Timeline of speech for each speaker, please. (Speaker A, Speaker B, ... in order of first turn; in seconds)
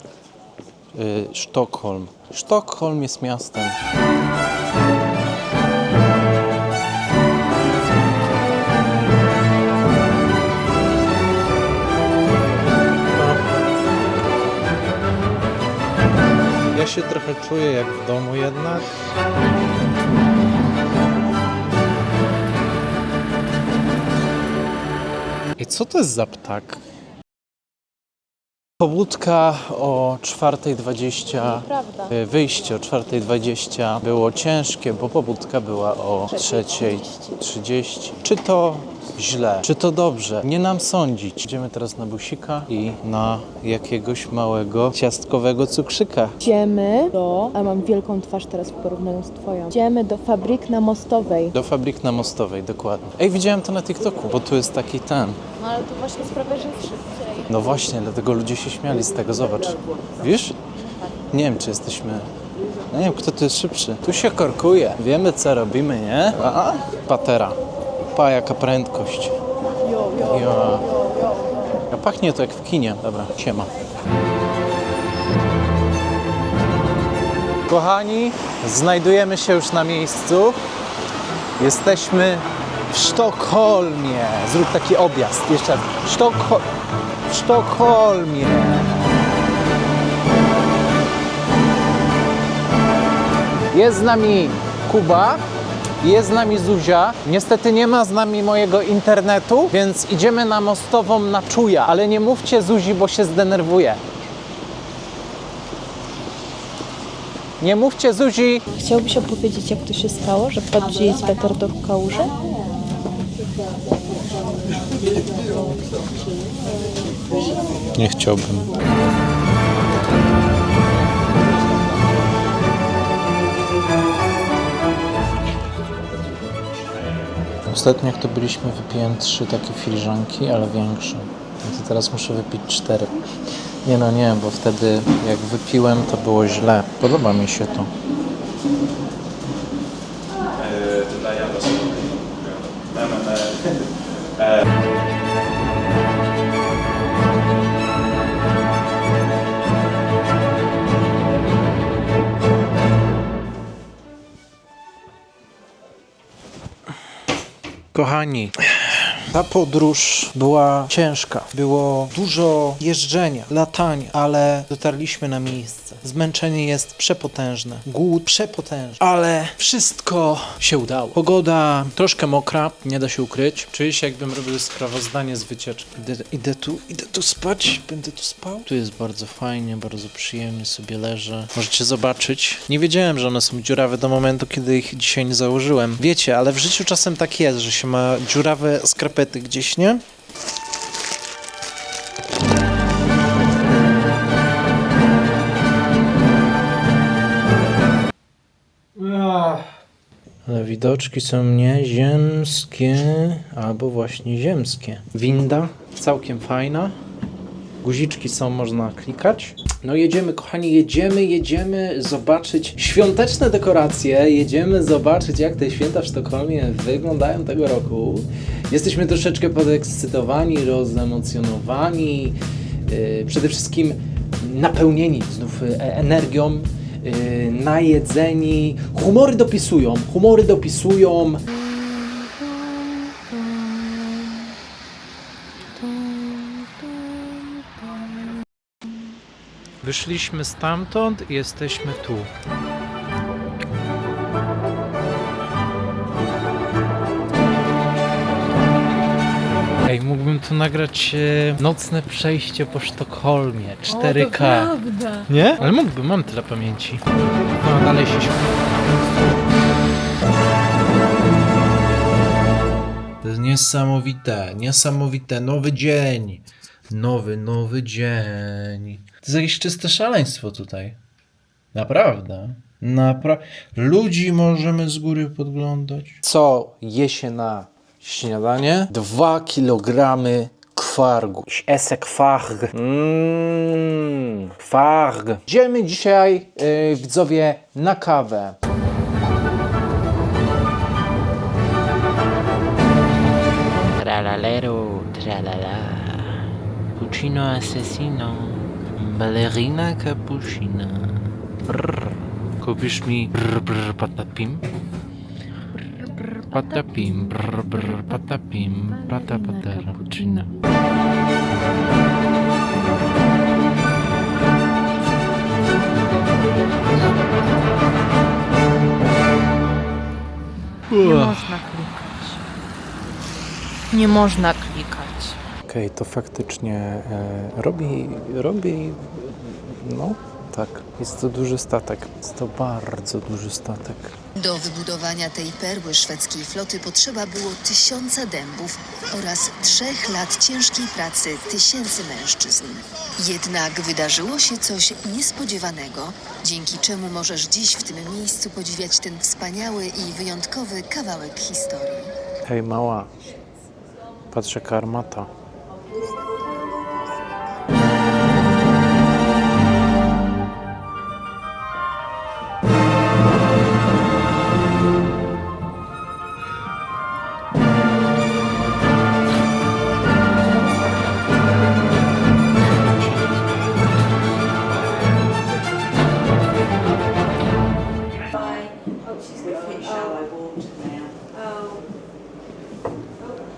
Speaker A: 0.9-3.8, 13.1-13.4, 16.7-19.0, 25.6-26.8, 28.8-46.4, 51.5-55.4, 57.5-60.6, 61.3-62.3, 62.9-67.6, 68.1-69.4, 70.1-70.9, 71.9-73.7, 77.7-80.6, 81.6-86.7, 87.3-89.2, 93.7-95.4, 96.0-104.0, 107.6-108.6, 118.0-118.7, 127.7-133.2, 133.8-137.9, 140.8-141.8, 157.9-190.0, 198.9-199.7, 200.4-207.0, 207.8-231.5, 235.8-238.0, 239.8-242.3, 249.8-254.8, 255.2-257.0, 257.6-258.5, 263.2-271.0, 271.7-288.6, 294.0-304.6, 306.5-310.5, 320.9-321.6, 325.6-334.2, 352.4-353.1, 354.3-355.3
Speaker B: 31.3-32.2, 36.3-37.4, 46.4-51.5, 55.6-57.5, 60.8-61.1, 69.9-70.2, 70.8-71.3, 108.7-112.3, 231.5-234.4, 253.9-255.3, 305.8-310.5, 320.9-322.4, 323.9-325.4
Speaker C: 334.4-352.1